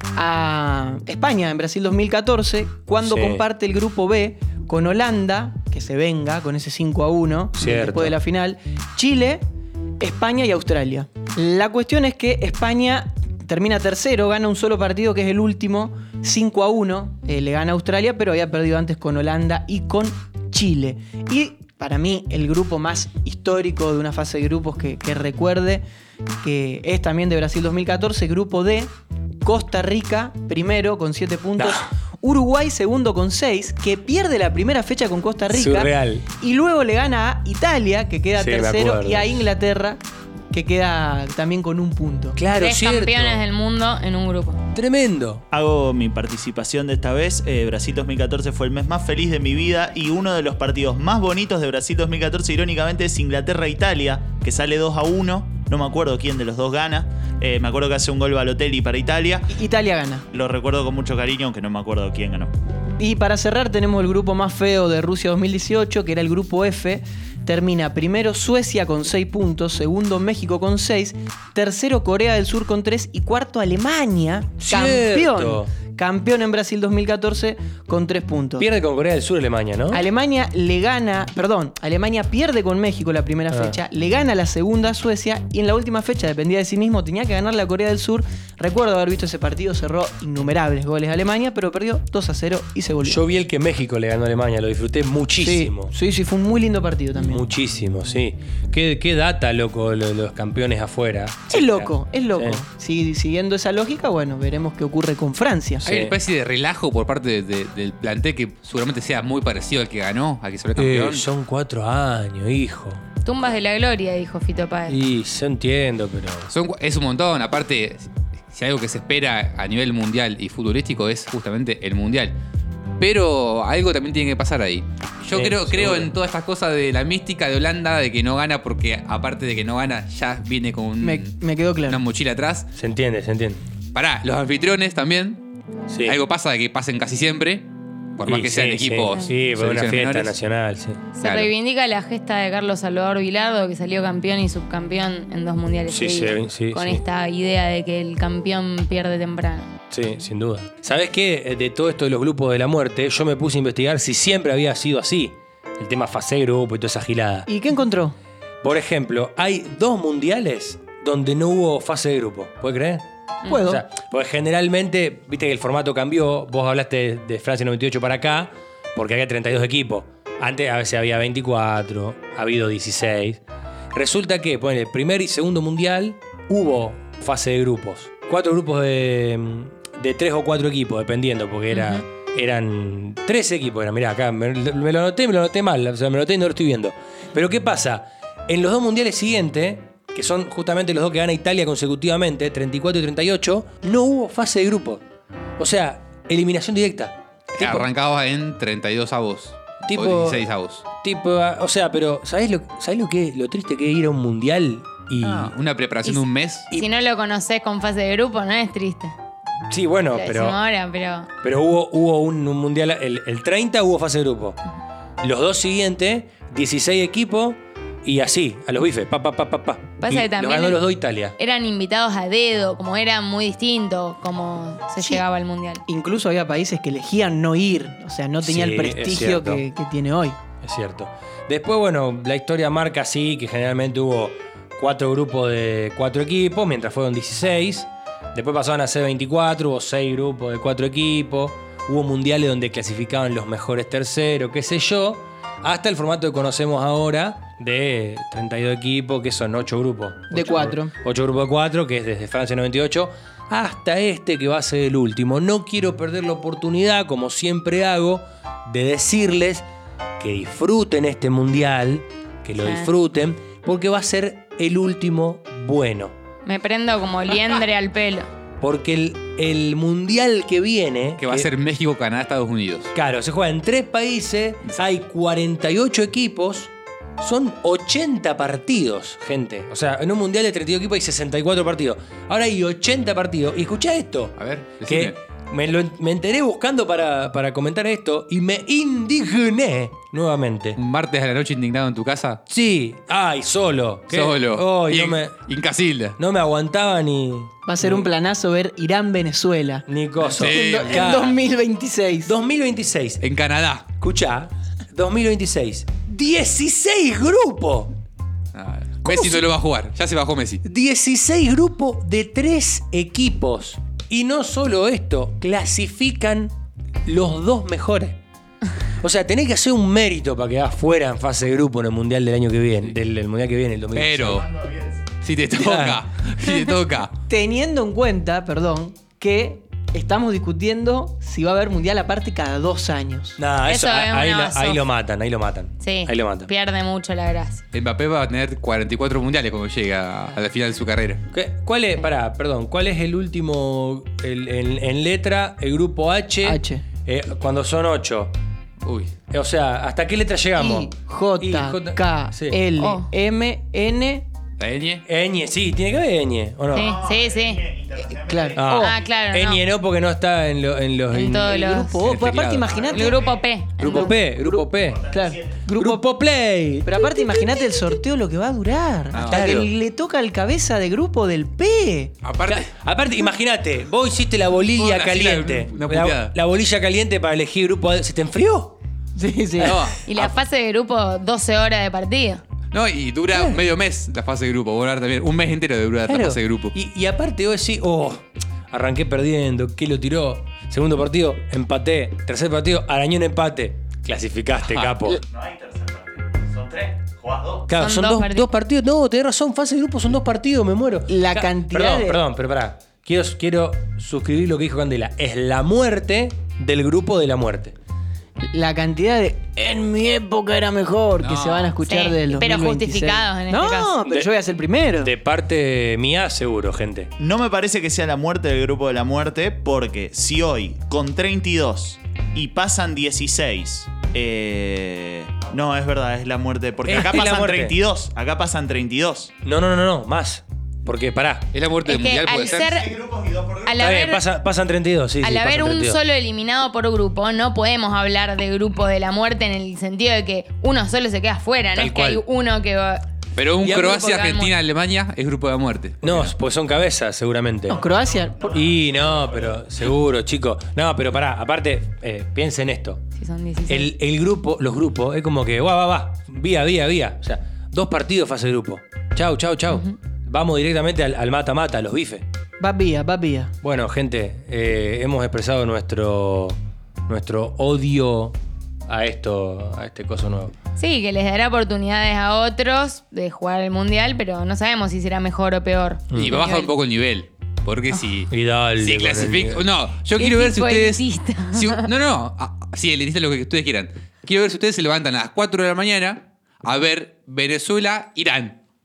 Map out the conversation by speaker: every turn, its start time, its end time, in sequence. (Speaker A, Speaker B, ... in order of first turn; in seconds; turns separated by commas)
Speaker A: 0.1-9.4, Speaker B: 3.0-3.4, Speaker B: 7.5-8.2, Speaker A: 10.0-25.8, Speaker A: 26.4-40.0, Speaker B: 31.6-31.9, Speaker B: 35.5-36.2, Speaker B: 38.4-39.4, Speaker A: 40.5-42.4, Speaker B: 42.4-43.4, Speaker C: 42.5-44.6, Speaker B: 44.7-45.4, Speaker D: 45.5-59.5, Speaker A: 59.5-60.3, Speaker D: 60.3-62.5, Speaker A: 63.0-78.7, Speaker B: 74.6-75.7, Speaker B: 78.6-80.0, Speaker A: 79.9-93.2, Speaker B: 83.5-83.8, Speaker B: 93.0-95.9, Speaker A: 95.4-97.4, Speaker B: 97.2-102.6, Speaker A: 101.5-105.8, Speaker B: 105.8-106.2, Speaker E: 105.8-111.2, Speaker B: 110.8-113.0, Speaker C: 113.2-115.0, Speaker B: 114.9-116.5, Speaker E: 116.5-122.4, Speaker E: 123.0-132.7, Speaker B: 125.3-126.1, Speaker A: 131.0-132.0, Speaker B: 132.7-133.6, Speaker E: 133.9-135.4, Speaker B: 135.9-136.2, Speaker E: 136.0-140.3, Speaker B: 138.2-141.0, Speaker C: 141.2-149.7, Speaker E: 141.2-141.5, Speaker B: 145.9-147.0, Speaker B: 149.9-157.5, Speaker A: 157.5-158.1, Speaker B: 158.6-173.4, Speaker A: 163.5-163.8, Speaker B: 173.9-195.0, Speaker C: 181.7-182.0, Speaker B: 195.6-197.9, Speaker E: 197.6-200.8, Speaker B: 199.9-205.5, Speaker E: 205.2-206.7, Speaker C: 206.0-209.1, Speaker B: 209.7-210.6, Speaker C: 210.1-211.3, Speaker B: 211.4-214.6, Speaker B: 215.2-221.3, Speaker C: 220.0-220.8, Speaker C: 221.4-225.8, Speaker A: 225.9-230.4, Speaker B: 228.4-229.6, Speaker B: 230.6-259.6, Speaker A: 250.3-250.9, Speaker B: 260.2-266.1, Speaker C: 262.6-262.9, Speaker C: 266.4-268.3, Speaker B: 268.6-271.5, Speaker E: 271.2-272.9, Speaker B: 272.9-290.8, Speaker E: 284.4-285.1, Speaker E: 290.8-292.4, Speaker B: 292.5-295.3, Speaker E: 294.1-296.2, Speaker B: 296.2-298.1, Speaker A: 297.6-299.9, Speaker B: 299.9-301.4, Speaker E: 300.2-301.3, Speaker A: 300.4-302.3, Speaker B: 302.2-303.2, Speaker E: 303.2-303.9, Speaker B: 303.9-307.9, Speaker E: 308.5-310.6, Speaker B: 309.0-309.4, Speaker B: 310.6-316.5, Speaker B: 317.1-318.2, Speaker B: 319.0-324.5, Speaker E: 323.9-324.4, Speaker D: 324.3-325.1, Speaker E: 325.2-327.1, Speaker B: 325.6-326.0, Speaker A: 327.3-333.4, Speaker B: 333.4-336.5, Speaker C: 333.6-334.8, Speaker C: 335.8-337.6, Speaker E: 337.7-341.2, Speaker B: 341.3-348.3, Speaker A: 346.4-346.8, Speaker E: 348.8-349.1, Speaker B: 349.3-352.6, Speaker A: 350.6-354.2, Speaker C: 352.8-353.1, Speaker E: 354.6-355.0, Speaker B: 355.1-356.9, Speaker C: 356.7-357.6, Speaker D: 356.7-359.0, Speaker A: 358.2-358.9, Speaker B: 358.5-361.6, Speaker C: 358.7-359.6, Speaker C: 361.1-362.0, Speaker A: 361.4-363.3, Speaker E: 362.0-362.8, Speaker D: 362.7-363.4, Speaker C: 362.9-364.1, Speaker B: 363.8-365.1, Speaker A: 363.8-366.0, Speaker D: 364.8-365.6, Speaker B: 365.7-367.5, Speaker A: 366.8-372.1, Speaker E: 369.1-369.6, Speaker B: 369.2-369.7, Speaker E: 372.2-372.7, Speaker B: 372.4-378.7, Speaker E: 374.8-376.3, Speaker A: 379.1-379.8, Speaker E: 379.6-380.3, Speaker C: 380.0-382.4, Speaker E: 382.7-386.7, Speaker B: 383.3-383.6, Speaker B: 386.1-395.2, Speaker E: 394.6-395.1, Speaker D: 395.2-397.7, Speaker B: 397.7-407.8, Speaker C: 397.7-398.5, Speaker A: 401.1-402.2, Speaker A: 408.4-415.1, Speaker E: 411.2-411.7, Speaker C: 411.8-414.0, Speaker B: 415.0-417.1, Speaker D: 417.2-429.3, Speaker B: 426.9-427.8, Speaker B: 429.4-431.5, Speaker E: 431.5-432.7, Speaker C: 431.9-433.0, Speaker D: 432.3-433.7, Speaker C: 433.6-434.2, Speaker B: 433.7-436.0, Speaker C: 435.2-443.0, Speaker B: 441.7-442.2, Speaker E: 443.4-446.3, Speaker C: 443.6-444.5, Speaker B: 446.0-447.9, Speaker A: 447.7-448.5, Speaker D: 447.8-449.6, Speaker B: 448.4-453.0, Speaker C: 453.2-453.9, Speaker B: 453.7-462.2, Speaker C: 459.7-460.0, Speaker A: 462.6-463.5, Speaker B: 463.6-468.4, Speaker B: 468.9-470.5, Speaker C: 470.8-476.7, Speaker B: 476.1-476.4, Speaker E: 476.1-488.6, Speaker B: 478.3-479.6, Speaker C: 480.2-481.8